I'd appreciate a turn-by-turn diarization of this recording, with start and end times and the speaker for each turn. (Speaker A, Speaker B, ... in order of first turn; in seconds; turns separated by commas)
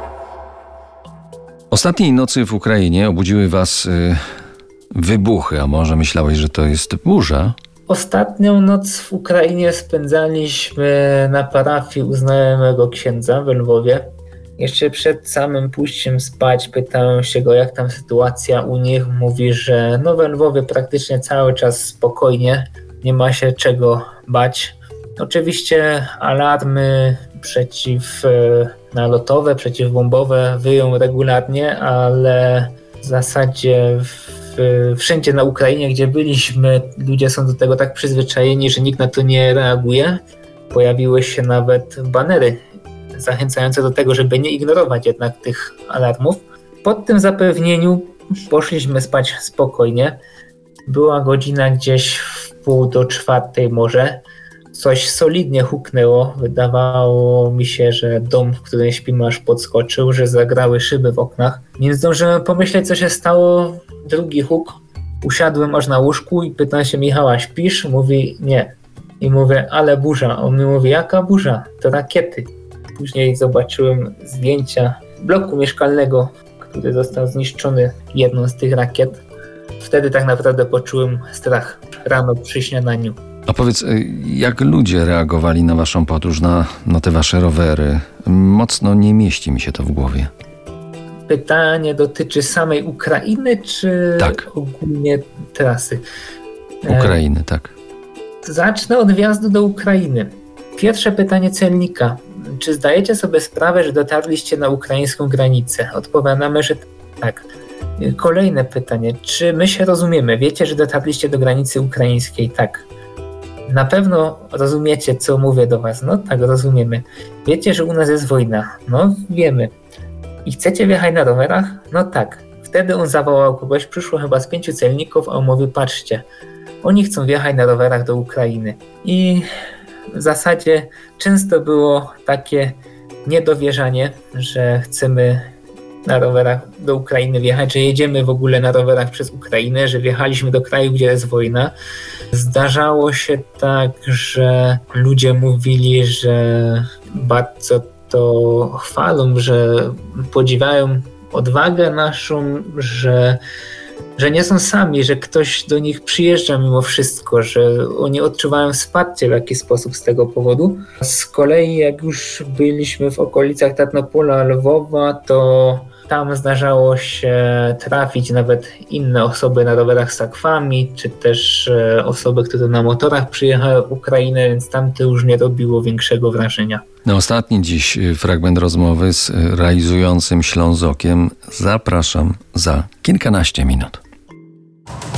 Speaker A: 1.7-4.2, Speaker A: 4.9-7.5, Speaker B: 7.9-14.1, Speaker B: 14.6-40.2, Speaker B: 40.7-42.6, Speaker B: 43.1-50.2, Speaker B: 50.9-79.2, Speaker B: 79.8-83.2, Speaker A: 83.5-90.3, Speaker B: 91.3-96.0, Speaker A: 94.2-94.5, Speaker B: 96.8-97.2, Speaker A: 96.8-97.7, Speaker B: 98.4-107.5, Speaker B: 108.0-112.9, Speaker B: 113.7-119.7, Speaker B: 120.5-126.2, Speaker B: 126.8-129.4, Speaker B: 130.1-135.5, Speaker B: 136.1-141.7, Speaker B: 142.3-153.4, Speaker B: 154.2-176.8, Speaker A: 177.1-184.0